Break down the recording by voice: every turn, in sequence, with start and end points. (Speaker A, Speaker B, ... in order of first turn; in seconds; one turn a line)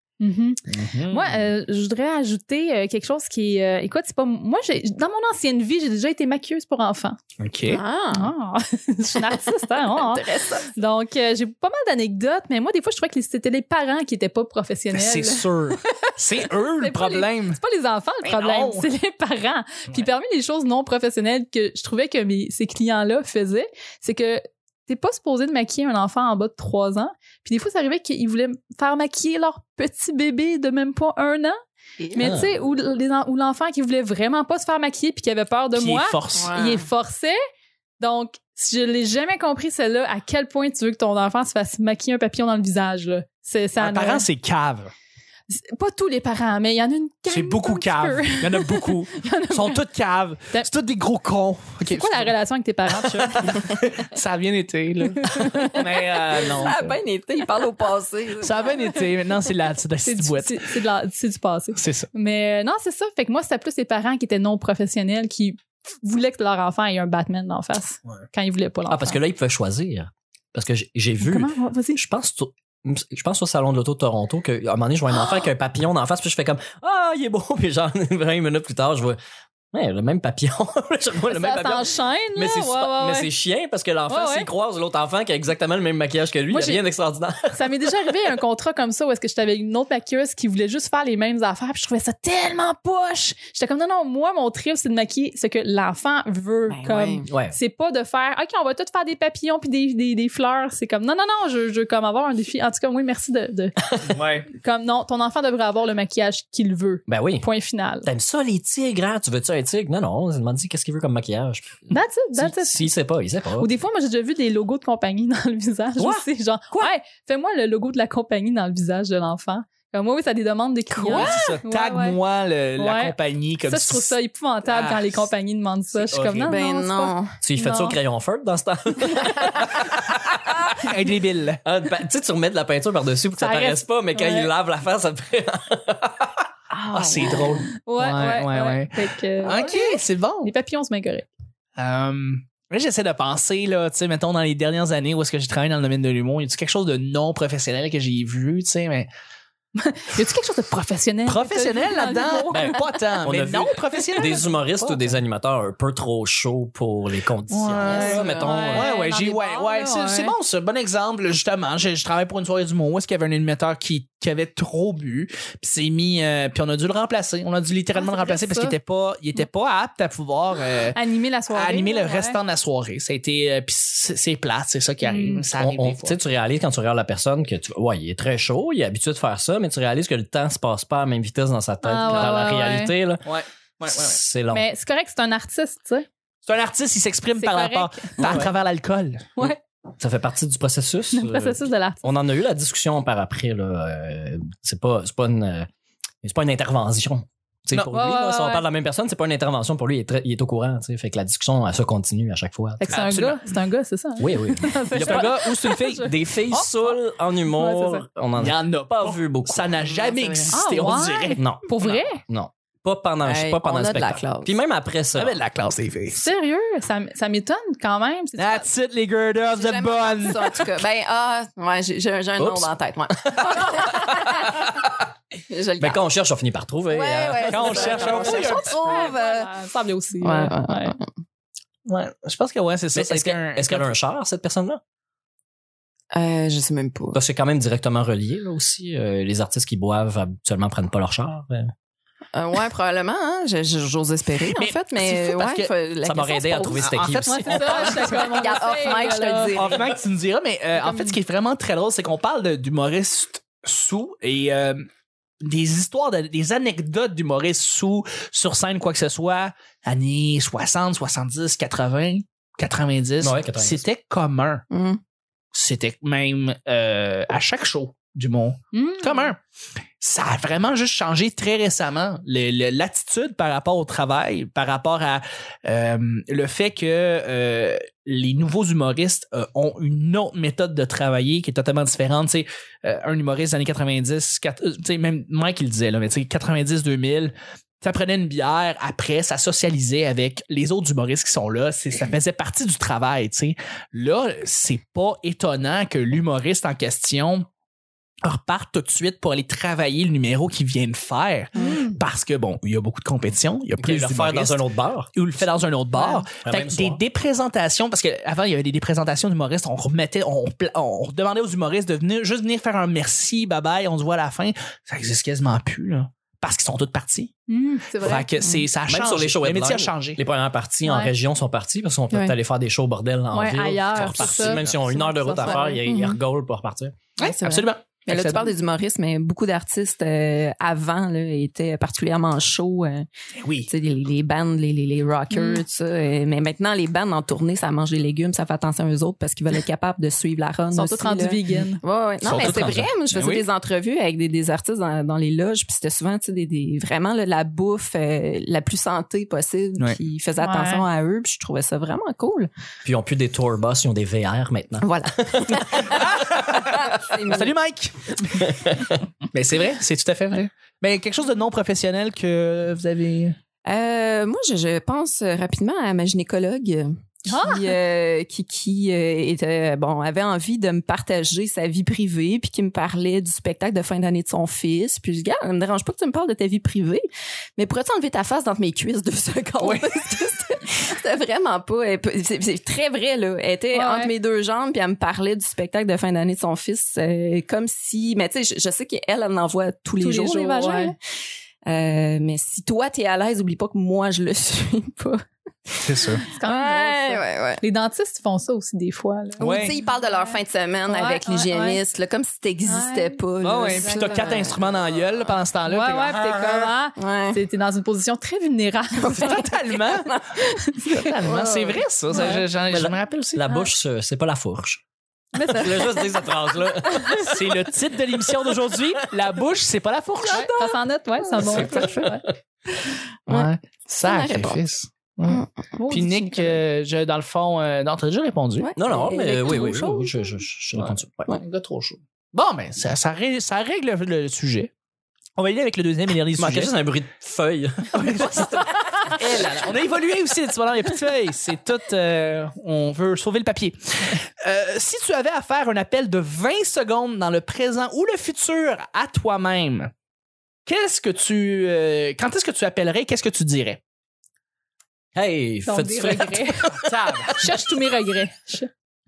Speaker A: 0.2-7.2
Speaker B: 0.7-1.4
Speaker B: 7.4-7.8
Speaker C: 7.7-8.3
Speaker A: 8.1-31.6
Speaker C: 9.9-10.7
Speaker B: 14.9-17.6
Speaker B: 18.2-18.9
Speaker C: 32.0-32.4
Speaker A: 32.1-37.4
Speaker D: 32.2-32.5
Speaker B: 35.7-36.5
Speaker C: 36.3-36.9
Speaker A: 38.0-44.2
Speaker B: 43.8-44.9
Speaker A: 45.5-49.8
Speaker B: 47.3-52.3
Speaker A: 51.8-53.6
Speaker B: 53.0-57.0
Speaker A: 55.1-55.8
Speaker C: 55.7-58.8
Speaker B: 58.4-60.6
Speaker A: 60.0-69.2
Speaker B: 61.8-62.1
Speaker D: 68.9-79.2
Speaker A: 71.2-72.0
Speaker D: 79.7-87.9
Speaker A: 81.3-83.3
Speaker A: 84.1-84.5
Speaker A: 86.5-86.8
Speaker A: 87.5-103.8
Speaker C: 96.7-97.2
Speaker D: 97.3-97.5
Speaker B: 104.1-104.5
Speaker A: 104.5-108.1
Speaker D: 107.1-107.5
Speaker D: 108.0-113.7
Speaker A: 111.9-112.9
Speaker A: 113.6-122.2
Speaker C: 120.9-121.5
Speaker B: 121.1-124.2
Speaker A: 122.8-128.0
Speaker B: 124.7-125.2
Speaker B: 126.0-126.6
Speaker C: 126.5-127.3
Speaker D: 127.4-130.6
Speaker B: 130.7-131.6
Speaker D: 131.6-136.5
Speaker A: 133.4-134.5
Speaker C: 136.7-137.7
Speaker B: 136.9-140.5
Speaker A: 137.8-141.3
Speaker C: 139.4-139.7
Speaker B: 141.8-149.1
Speaker A: 149.7-152.9
Speaker B: 151.2-155.1
Speaker D: 152.5-158.9
Speaker B: 157.5-171.0
Speaker C: 157.8-158.8
Speaker A: 158.4-160.3
Speaker A: 167.9-168.7
Speaker A: 170.9-172.4
Speaker B: 171.5-176.2
Speaker A: 175.0-175.4
Speaker D: 175.6-183.2
Speaker A: 181.8-182.9
Speaker B: 183.2-184.2
Speaker D: 183.9-184.7
Speaker A: 184.5-186.1
Speaker B: 186.4-189.3
Speaker A: 187.3-188.4
Speaker D: 188.2-188.5
Speaker D: 189.4-195.7
Speaker A: 191.1-192.1
Speaker D: 196.2-203.0
Speaker A: 197.7-198.6
Speaker A: 202.8-206.9
Speaker B: 202.9-203.4
Speaker D: 204.2-205.4
Speaker B: 204.9-206.1
Speaker D: 206.0-209.7
Speaker A: 207.5-208.0
Speaker B: 208.4-212.0
Speaker C: 209.8-210.6
Speaker A: 210.5-212.2
Speaker D: 211.4-215.4
Speaker C: 213.2-214.5
Speaker B: 215.2-216.2
Speaker A: 216.1-218.7
Speaker B: 218.4-220.7
Speaker C: 219.4-224.9
Speaker D: 222.4-224.9
Speaker C: 225.5-226.0
Speaker D: 225.8-228.2
Speaker C: 226.9-229.5
Speaker B: 227.4-229.0
Speaker A: 227.8-230.9
Speaker C: 230.2-231.1
Speaker B: 231.8-233.9
Speaker D: 232.9-234.8
Speaker C: 236.1-237.2
Speaker D: 237.1-241.7
Speaker C: 242.3-247.0
Speaker B: 244.4-245.7
Speaker D: 246.0-248.2
Speaker B: 246.8-248.5
Speaker A: 247.2-249.8
Speaker C: 247.9-249.9
Speaker B: 249.5-254.9
Speaker A: 250.8-251.2
Speaker B: 255.4-264.6
Speaker D: 263.2-263.8
Speaker C: 264.7-265.0
Speaker B: 265.5-269.4
Speaker A: 268.7-269.3
Speaker B: 270.0-297.5
Speaker B: 298.2-304.6
Speaker A: 301.6-302.0
Speaker D: 303.8-305.1
Speaker B: 305.1-317.3
Speaker A: 305.9-306.2
Speaker D: 306.4-307.0
Speaker A: 317.5-318.3
Speaker B: 318.0-320.2
Speaker C: 318.4-318.7
Speaker D: 318.9-326.9
Speaker A: 320.8-321.1
Speaker A: 323.3-325.8
Speaker B: 324.0-324.8
Speaker C: 325.4-326.2
Speaker B: 327.2-328.5
Speaker C: 327.2-333.1
Speaker B: 333.4-333.7
Speaker C: 333.7-352.5
Speaker A: 335.3-335.6
Speaker A: 340.7-341.8
Speaker D: 342.2-342.9
Speaker B: 342.3-343.4
Speaker A: 350.4-350.8
Speaker D: 352.8-356.1
Speaker C: 354.8-357.5
Speaker B: 355.9-358.6
Speaker D: 358.5-359.0
Speaker B: 359.3-363.4
Speaker C: 363.6-377.0
Speaker A: 367.2-367.7
Speaker C: 377.6-390.9
Speaker B: 379.6-380.0
Speaker A: 383.7-384.1
Speaker A: 390.0-390.9
Speaker C: 391.6-397.6
Speaker B: 395.8-396.2
Speaker A: 396.2-401.8
Speaker C: 399.4-404.6
Speaker B: 399.4-399.7
Speaker A: 402.6-404.5
Speaker B: 403.4-406.7
Speaker A: 405.7-409.4
Speaker C: 407.0-407.4
Speaker C: 409.0-412.3
Speaker B: 409.1-410.1
Speaker B: 410.9-413.4
Speaker A: 412.1-412.4
Speaker D: 412.7-414.8
Speaker A: 415.3-416.1
Speaker D: 415.4-419.0
Speaker C: 415.5-416.1
Speaker A: 416.9-417.2
Speaker B: 417.2-420.5
Speaker C: 420.2-420.7
Speaker A: 420.3-422.2
Speaker C: 421.3-421.9
Speaker B: 421.4-422.0
Speaker D: 421.6-422.1
Speaker C: 422.9-424.6
Speaker B: 423.3-428.7
Speaker A: 425.8-426.6
Speaker C: 428.6-430.3
Speaker D: 428.8-431.3
Speaker B: 430.7-434.7
Speaker B: 435.4-436.7
Speaker D: 436.4-439.5
Speaker B: 437.9-449.9
Speaker B: 450.6-453.8
Speaker D: 455.1-457.3
Speaker A: 455.6-456.7
Speaker B: 456.7-457.4
Speaker A: 457.3-458.7